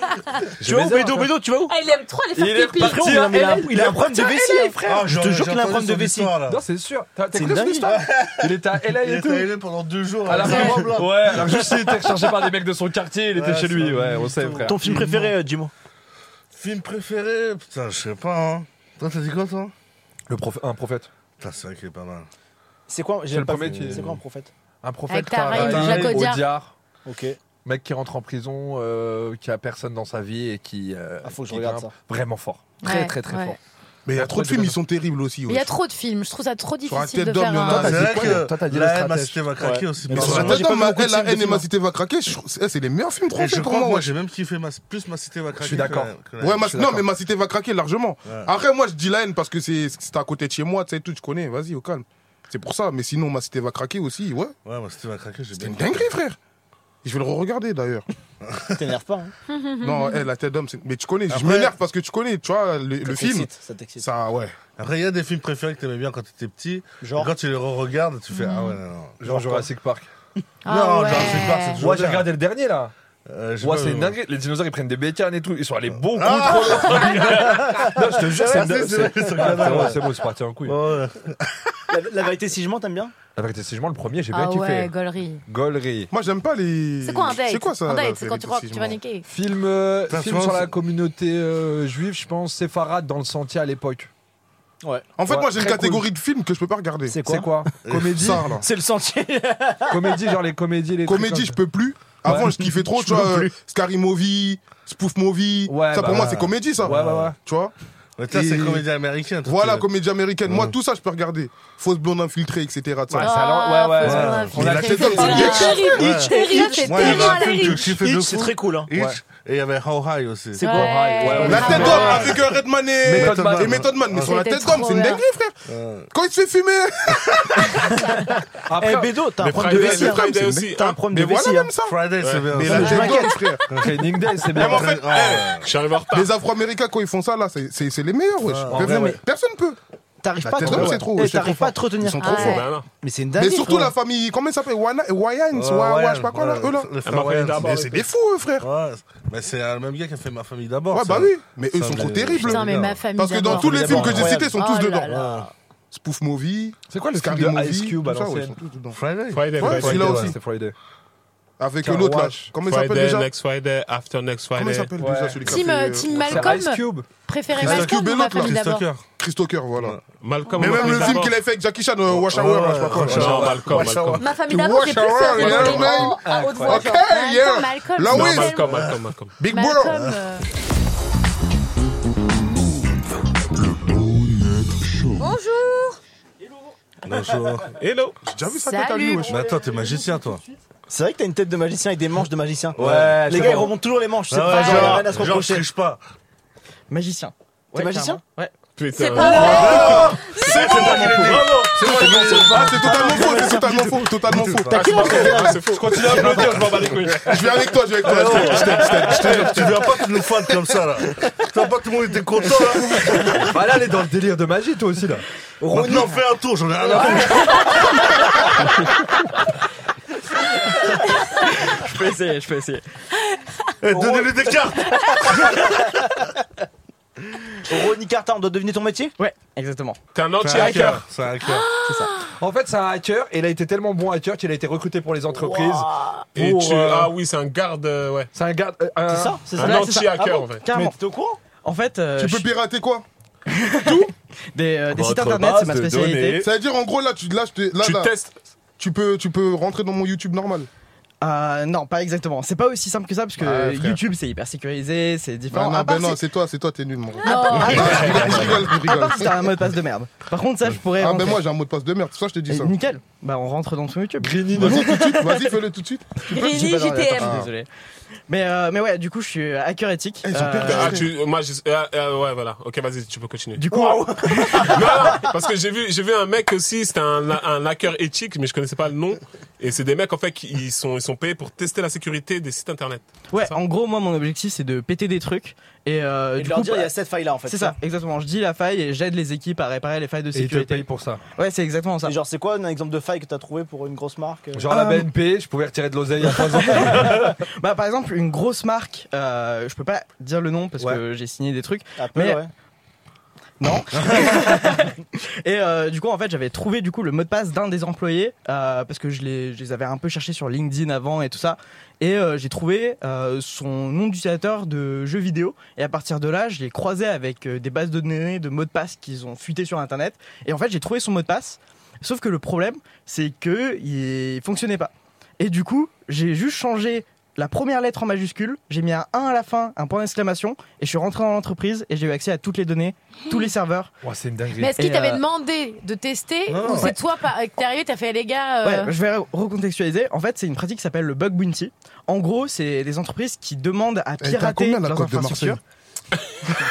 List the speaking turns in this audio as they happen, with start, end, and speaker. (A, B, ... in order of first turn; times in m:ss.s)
0:00.6-0:01.3 A
0:00.6-0:01.7 B
0:01.7-0:03.2 C
0:02.4-0:05.0 A
0:02.7-0:06.4 B
0:04.8-0:06.6 D
0:06.5-0:09.5 A
0:07.3-0:08.0 B
0:07.8-0:12.1 D
0:10.2-0:14.9 A
0:10.4-0:10.8 B
0:13.3-0:15.3 D
0:14.6-0:15.7 B
0:16.5-0:19.7 D
0:20.3-0:21.1 A
0:21.4-0:22.3 D
0:22.9-0:24.5 B
0:23.3-0:24.1 A
0:23.6-0:24.2 D
0:24.8-0:26.7 A
0:25.1-0:26.5 E
0:25.5-0:26.3 D
0:27.0-0:27.4 B
0:27.6-0:33.6 A
0:31.2-0:31.9 B
0:32.8-0:33.6 E
0:34.0-0:35.7 F
0:34.1-0:34.8 A
0:35.5-0:37.9 E
0:36.9-0:38.4 F
0:37.6-0:39.4 A
0:37.8-0:40.7 D
0:39.6-0:41.6 B
0:40.1-0:44.1 F
0:43.3-0:47.0 D
0:45.6-0:46.1 A
0:46.4-0:54.5 F
0:54.6-0:56.1 D
0:55.6-0:56.4 F
0:57.0-0:58.0 F
0:58.4-0:58.8 D
0:58.7-0:59.3 B
0:59.5-1:00.1 C
0:59.8-1:04.6 F
1:01.4-1:01.7 B
1:03.0-1:04.0 B
1:04.8-1:09.6 D
1:07.0-1:07.3 B
1:08.3-1:08.8 E
1:09.2-1:10.1 A
1:10.6-1:11.8 E
1:10.7-1:12.4 D
1:11.8-1:12.9 A
1:13.3-1:14.2 D
1:13.6-1:20.8 A
1:15.9-1:17.6 D
1:16.6-1:20.0 B
1:18.4-1:21.6 D
1:21.9-1:23.1 B
1:23.4-1:24.9 A
1:24.3-1:25.4 E
1:25.4-1:26.1 A
1:26.1-1:29.0 F
1:27.0-1:29.2 E
1:29.2-1:34.1 A
1:30.1-1:30.8 D
1:34.8-1:35.1 B
1:35.2-1:37.2 F
1:35.3-1:36.0 A
1:37.1-1:37.7 B
1:37.2-1:37.7 A
1:37.8-1:38.4 D
1:37.9-1:38.6 F
1:38.5-1:40.3 B
1:39.9-1:41.6 A
1:41.0-1:47.7 F
1:42.2-1:42.5 A
1:42.2-1:43.5 B
1:45.7-1:47.4 A
1:46.1-1:47.3 D
1:48.2-1:49.9 D
1:48.3-1:48.8 F
1:49.4-1:53.3 F
1:50.5-1:50.7 D
1:53.1-1:55.5 A
1:53.2-1:57.7 E
1:54.0-2:01.1 D
1:54.6-1:56.0 F
1:55.1-1:57.9 C
1:55.5-1:58.9 B
2:00.5-2:02.0 B
2:00.6-2:02.3 E
2:00.7-2:02.4 A
2:01.4-2:05.6 F
2:01.7-2:02.4 D
2:03.0-2:03.9 A
2:03.0-2:04.3 D
2:04.2-2:05.2 E
2:05.6-2:06.1 D
2:06.1-2:08.2 F
2:07.9-2:11.7 B
2:08.7-2:09.1 A
2:09.4-2:11.0 G
2:09.6-2:12.0 F
2:11.8-2:15.7 D
2:12.2-2:12.5 G
2:12.5-2:13.6 F
2:12.6-2:13.4 B
2:12.8-2:13.2 E
2:13.7-2:15.0 A
2:14.5-2:15.5 F
2:15.1-2:16.3 G
2:16.1-2:19.8 F
2:18.4-2:19.2 D
2:18.7-2:19.2 B
2:20.2-2:23.9 B
2:20.4-2:22.7 F
2:20.6-2:21.7 A
2:22.2-2:22.6 E
2:22.4-2:22.8 G
2:23.4-2:26.9 F
2:25.5-2:28.0 D
2:27.0-2:28.0 G
2:27.6-2:28.7 F
2:28.6-2:33.6 D
2:30.9-2:35.1 F
2:32.4-2:35.2 E
2:33.5-2:34.5 B
2:35.1-2:35.4 B
2:35.1-2:35.5 D
2:35.9-2:39.0 F
2:36.9-2:38.6 A
2:38.9-2:40.4 D
2:39.3-2:40.1 G
2:39.6-2:40.4 F
2:39.6-2:40.7 A
2:41.6-2:43.3 F
2:41.8-2:42.5 A
2:42.6-2:44.9 G
2:44.5-2:46.6 F
2:45.0-2:45.5 A
2:45.4-2:48.8 E
2:46.2-2:47.1 A
2:47.6-2:49.0 D
2:47.6-2:50.0 F
2:50.2-2:51.4 G
2:50.5-2:53.6 F
2:50.7-2:51.0 E
2:52.1-2:54.3 D
2:53.0-2:54.3 G
2:54.2-2:57.0 C
2:54.5-2:58.9 F
2:55.3-2:56.8 A
2:56.8-2:58.7 E
2:58.1-2:59.4 G
2:59.4-3:00.0 F
2:59.5-3:00.5 E
2:59.9-3:00.2 D
3:05.2-3:06.0 C
3:07.0-3:07.8 D
3:07.8-3:08.2 G
3:08.2-3:09.4 F
3:08.5-3:09.3 E
3:09.3-3:10.4 D
3:10.9-3:15.6 B
3:12.8-3:13.8 A
3:12.8-3:13.6 D
3:14.3-3:16.0 D
3:16.9-3:18.5 H
3:17.7-3:18.2 B
3:18.8-3:20.1 G
3:18.9-3:21.1 C
3:19.2-3:22.6 D
3:19.6-3:25.5 F
3:21.5-3:23.6 A
3:21.9-3:24.0 B
3:24.3-3:25.3 D
3:24.7-3:26.6 B
3:24.7-3:26.6 G
3:25.6-3:29.6 A
3:27.2-3:30.7 F
3:28.1-3:28.5 D
3:28.4-3:29.2 G
3:29.1-3:33.4 D
3:33.4-3:35.2 A
3:35.6-3:36.2 B
3:35.7-3:37.7 D
3:36.9-3:37.8 B
3:40.9-3:42.8 H
3:43.8-3:45.4 D
3:43.9-3:44.4 B
3:45.4-3:46.0 B
3:47.6-3:49.1 B
3:49.2-3:50.0 H
3:50.1-3:51.0 G
3:50.4-3:51.7 D
3:50.5-3:51.0 H
3:51.5-3:52.0 C
3:51.9-3:52.1 H
3:52.4-3:57.1 A
3:55.3-3:56.2 B
3:56.4-3:58.3 G
3:58.3-3:59.4 A
3:59.0-4:01.4 B
3:59.6-4:00.6 G
3:59.6-4:00.9 H
4:01.6-4:02.5 H
4:02.2-4:03.0 F
4:03.5-4:06.4 H
4:04.9-4:06.5 G
4:06.4-4:08.1 F
4:07.8-4:08.3 G
4:08.8-4:10.7 F
4:11.2-4:16.2 H
4:13.4-4:14.0 F
4:15.5-4:19.3 F
4:17.2-4:18.1 E
4:17.3-4:21.4 H
4:17.8-4:18.4 G
4:21.0-4:22.7 F
4:22.5-4:25.5 H
4:24.2-4:24.9 A
4:24.5-4:26.2 F
4:26.3-4:27.7 H
4:26.3-4:27.4 C
4:27.1-4:27.5 F
4:28.3-4:31.0 H
4:30.2-4:31.1 F
4:30.6-4:33.6 G
4:33.6-4:35.1 H
4:33.7-4:35.0 B
4:34.6-4:43.6 G
4:43.3-4:46.9 H
4:46.4-4:47.8 B
4:47.5-4:50.8 H
4:50.3-4:51.2 A
4:51.4-4:52.2 H
4:52.0-4:54.7 B
4:54.5-4:57.4 A
4:54.7-4:55.1 H
4:56.6-5:02.4 H
5:02.0-5:02.5 B
5:03.6-5:33.9 H
5:34.0-5:34.8 A
5:34.6-5:38.9 E
5:34.8-5:35.2 H
5:36.5-5:37.0 D
5:38.6-5:45.6 H
5:44.2-5:45.6 F